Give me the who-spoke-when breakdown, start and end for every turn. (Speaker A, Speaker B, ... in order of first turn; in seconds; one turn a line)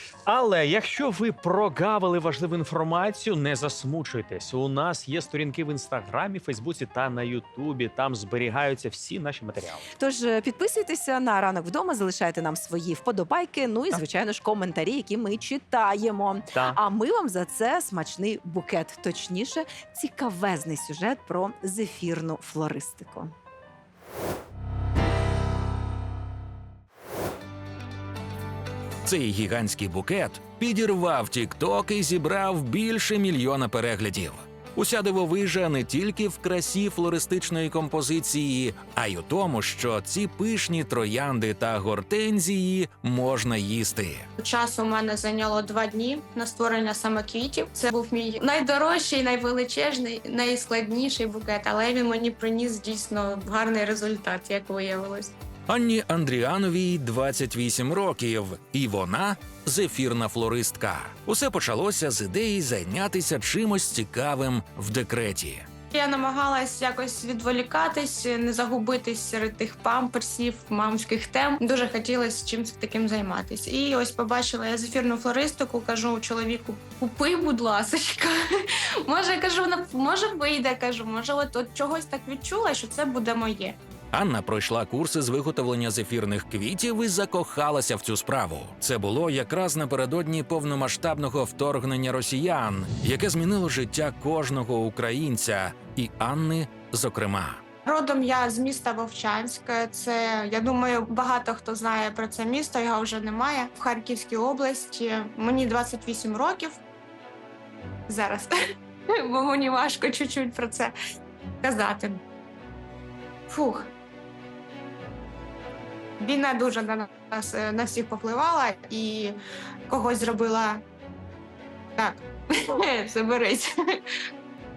Speaker A: 0.2-9.8
Speaker B: 9.9-23.3
Speaker A: 16.5-16.8
Speaker C: 29.0-44.3
Speaker D: 44.4-55.3
Speaker C: 55.7-65.7
Speaker D: 65.9-78.4
Speaker D: 79.0-83.8
Speaker C: 84.1-97.6
Speaker D: 97.8-106.8
Speaker D: 108.1-108.5
Speaker D: 109.2-110.9
Speaker D: 111.6-112.2
Speaker D: 113.5-113.9
Speaker D: 116.2-119.3
Speaker D: 119.9-120.8
Speaker D: 122.0-124.0